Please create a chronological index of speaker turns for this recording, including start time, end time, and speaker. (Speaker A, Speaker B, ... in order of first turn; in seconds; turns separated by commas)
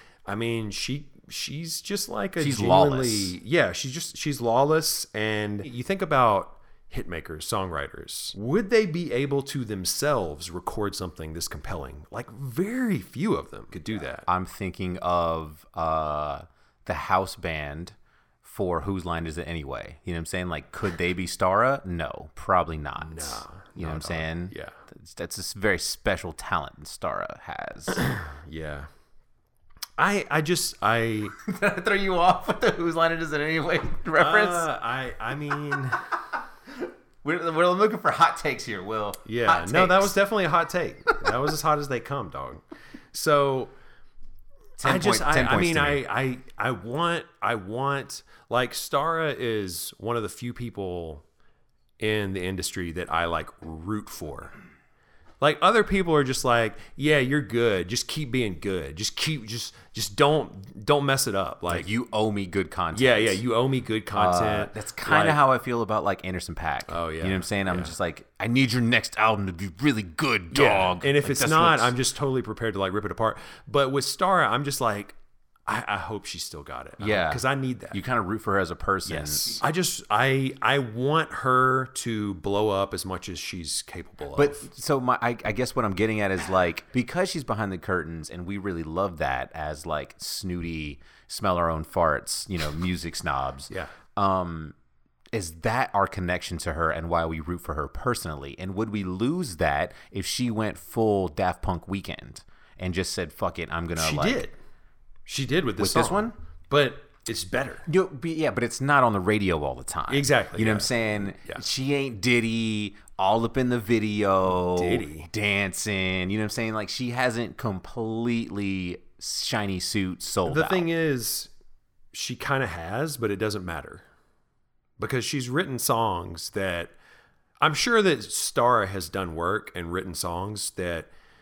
Speaker A: 0.3-14.3, Speaker B: 2.4-3.4, Speaker B: 14.3-28.0, Speaker A: 23.0-24.8, Speaker A: 28.0-28.9, Speaker A: 30.0-31.4, Speaker B: 31.4-34.7, Speaker A: 34.1-36.1, Speaker B: 36.8-40.1, Speaker A: 39.3-42.6, Speaker B: 41.1-41.5, Speaker A: 43.1-43.7, Speaker B: 44.8-46.0, Speaker A: 44.8-51.2, Speaker A: 52.0-54.5, Speaker A: 55.4-61.9, Speaker B: 61.7-63.4, Speaker A: 62.9-65.4, Speaker B: 64.2-72.0, Speaker A: 66.9-67.9, Speaker A: 70.5-78.0, Speaker B: 77.0-79.6, Speaker A: 79.1-84.7, Speaker B: 84.3-94.8, Speaker B: 95.3-104.5, Speaker A: 104.0-104.5, Speaker A: 105.3-107.9, Speaker B: 105.8-106.3, Speaker B: 107.9-120.9, Speaker A: 110.1-110.9, Speaker A: 114.6-115.3, Speaker A: 120.5-121.5, Speaker A: 122.1-124.0, Speaker A: 125.0-126.9, Speaker A: 127.6-131.1